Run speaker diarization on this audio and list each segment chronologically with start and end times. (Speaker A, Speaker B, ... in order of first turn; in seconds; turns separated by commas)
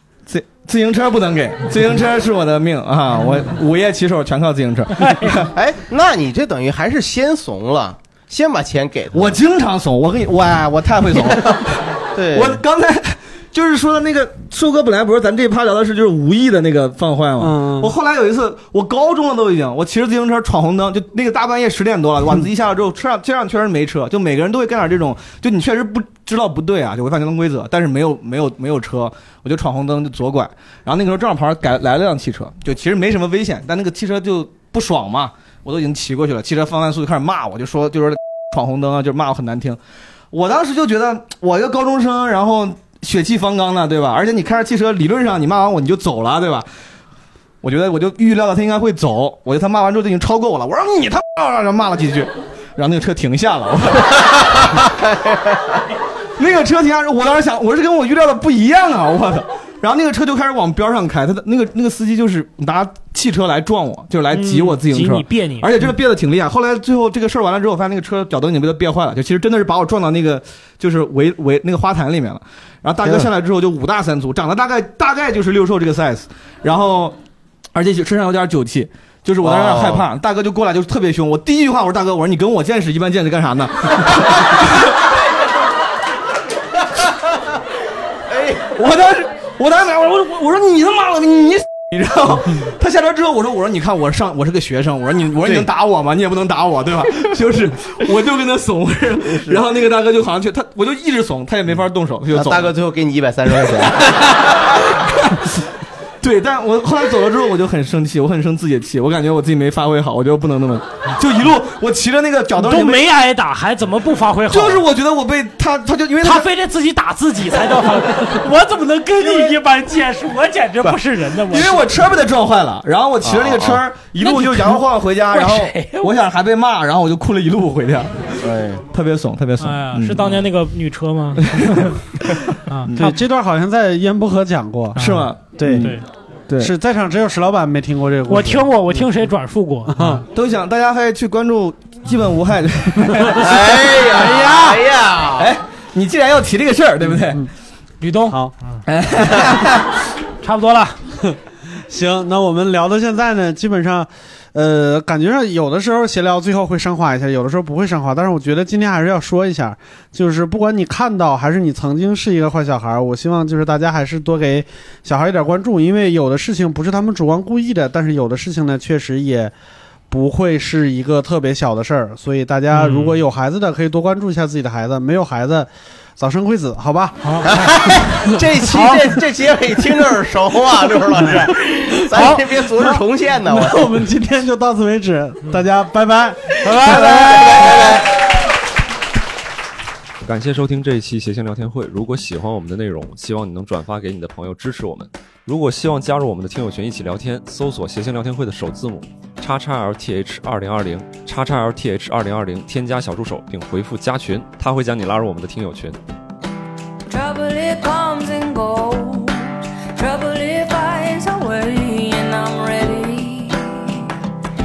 Speaker A: 0.3-5.5, Speaker B: 5.0-5.4, Speaker C: 5.5-9.4, Speaker A: 9.1-39.8, Speaker C: 11.2-12.6, Speaker D: 17.4-17.9, Speaker A: 40.3-46.7, Speaker A: 47.6-54.9, Speaker C: 54.8-55.8, Speaker A: 56.4-77.2, Speaker B: 64.3-65.7, Speaker C: 73.0-73.3, Speaker A: 77.7-85.1, Speaker C: 79.4-80.0, Speaker C: 88.3-88.8, Speaker A: 88.7-102.7, Speaker C: 95.4-95.7, Speaker C: 99.2-99.6, Speaker C: 102.3-104.5, Speaker A: 104.1-105.6, Speaker A: 106.2-113.0, Speaker B: 112.6-114.8, Speaker A: 114.5-116.5, Speaker B: 116.2-121.9, Speaker A: 119.2-119.5, Speaker A: 121.5-128.4, Speaker C: 123.2-123.8, Speaker B: 124.2-124.8, Speaker B: 125.3-126.1, Speaker C: 128.4-128.8, Speaker A: 128.9-130.4, Speaker B: 129.6-133.2, Speaker A: 131.6-131.9, Speaker D: 133.0-136.0, Speaker B: 134.9-136.0, Speaker A: 135.0-135.9, Speaker D: 136.6-139.1, Speaker B: 138.3-140.2, Speaker D: 139.9-140.2, Speaker A: 140.3-144.3, Speaker C: 143.3-145.5, Speaker B: 144.2-144.8, Speaker A: 145.3-147.4, Speaker D: 147.0-147.5, Speaker B: 148.0-148.8, Speaker A: 148.9-149.8, Speaker B: 150.4-151.0, Speaker D: 151.9-169.5, Speaker D: 170.1-177.4, Speaker B: 172.7-173.2, Speaker B: 177.2-177.5, Speaker C: 177.4-184.1, Speaker B: 178.6-179.2, Speaker B: 182.1-182.4, Speaker D: 183.5-187.5, Speaker C: 186.6-188.2, Speaker B: 186.6-187.6, Speaker E: 190.2-206.0, Speaker F: 207.1-214.1